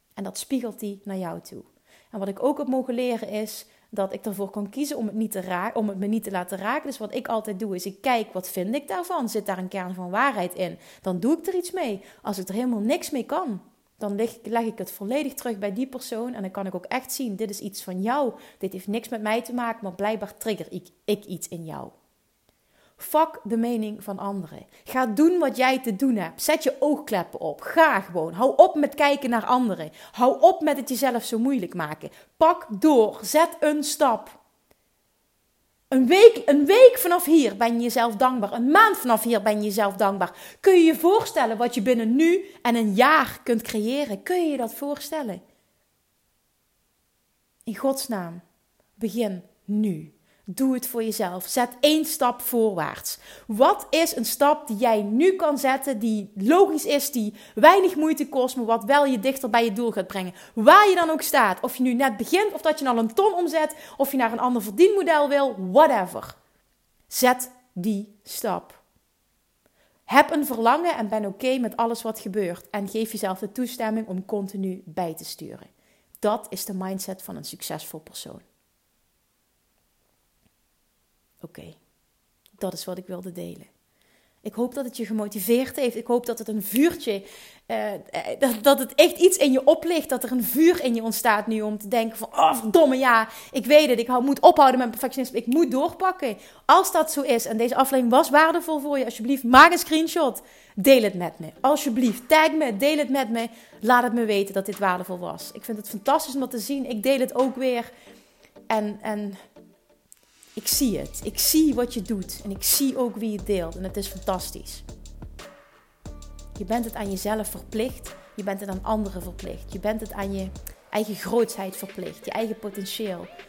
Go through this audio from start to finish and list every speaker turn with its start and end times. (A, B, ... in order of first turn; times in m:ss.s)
0:00.2-0:21.9 A
0:23.0-0:34.4 A
0:35.9-0:45.4 A
0:47.7-0:48.4 A
0:49.0-1:06.4 A
1:07.1-1:08.8 A
1:10.1-1:15.7 A
1:16.2-1:18.4 A
1:21.4-1:21.8 A
1:22.6-1:23.7 A
1:24.4-1:47.9 A
1:48.7-1:49.4 A
1:50.6-1:54.8 A
1:56.6-2:03.3 A